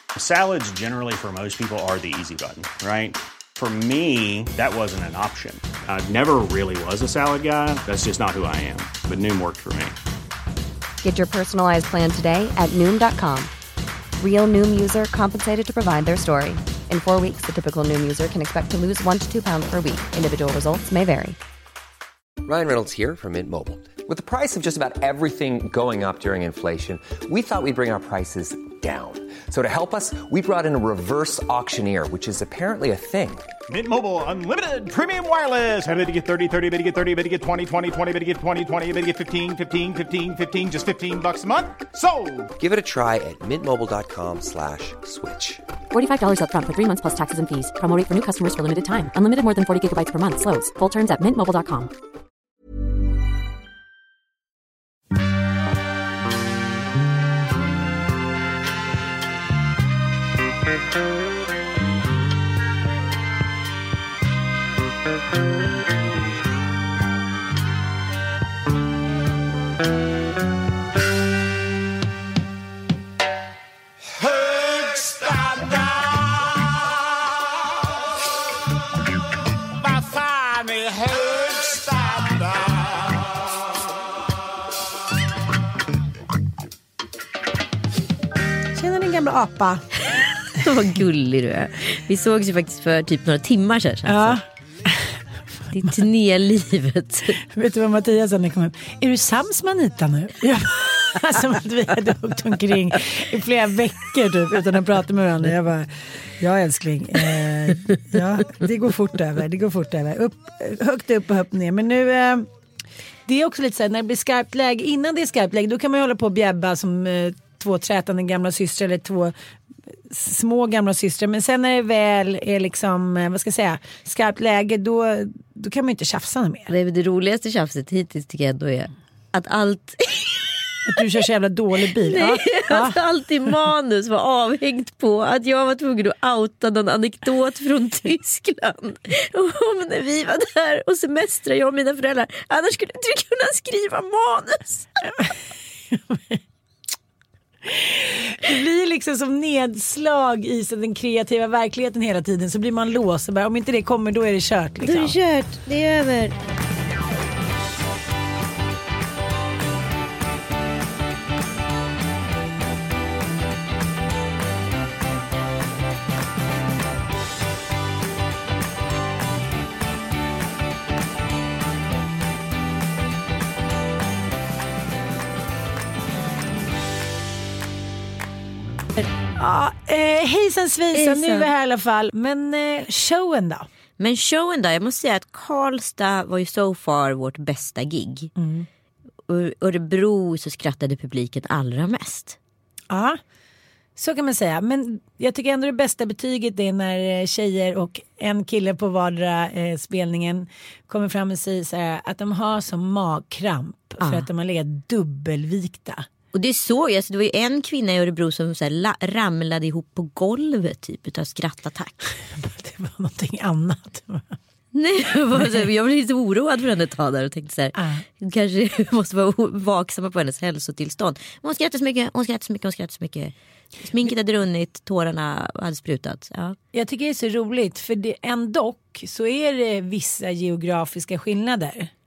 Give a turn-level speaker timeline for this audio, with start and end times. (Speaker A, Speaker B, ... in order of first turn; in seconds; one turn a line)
Speaker A: 0.1-9.9
Speaker B: 11.0-13.5
Speaker B: 14.2-21.4
Speaker C: 22.4-33.5
Speaker D: 33.7-42.5
Speaker C: 42.6-45.6
Speaker E: 45.9-51.9
Speaker D: 74.2-76.9
Speaker D: 79.8-83.3
Speaker F: 88.8-89.9
Speaker G: 90.5-94.4
Speaker F: 94.0-95.2
Speaker F: 95.7-96.0
Speaker G: 95.7-97.4
Speaker F: 97.4-112.5
Speaker F: 113.2-119.3
Speaker F: 120.1-126.7
Speaker G: 126.7-130.7
Speaker F: 130.8-133.0
Speaker G: 132.0-144.9
Speaker F: 145.9-146.4
Speaker F: 147.6-155.2
Speaker G: 154.8-156.4
Speaker F: 179.2-183.7
Speaker G: 180.9-181.5
Speaker G: 184.0-188.3
Speaker F: 188.3-188.7
Speaker G: 189.3-192.4
Speaker F: 192.9-193.2
Speaker F: 193.9-206.1
Speaker G: 204.0-204.3
Speaker G: 206.3-211.9
Speaker F: 212.2-214.3
Speaker G: 214.7-226.6
Speaker F: 217.8-218.0
Speaker F: 226.7-231.9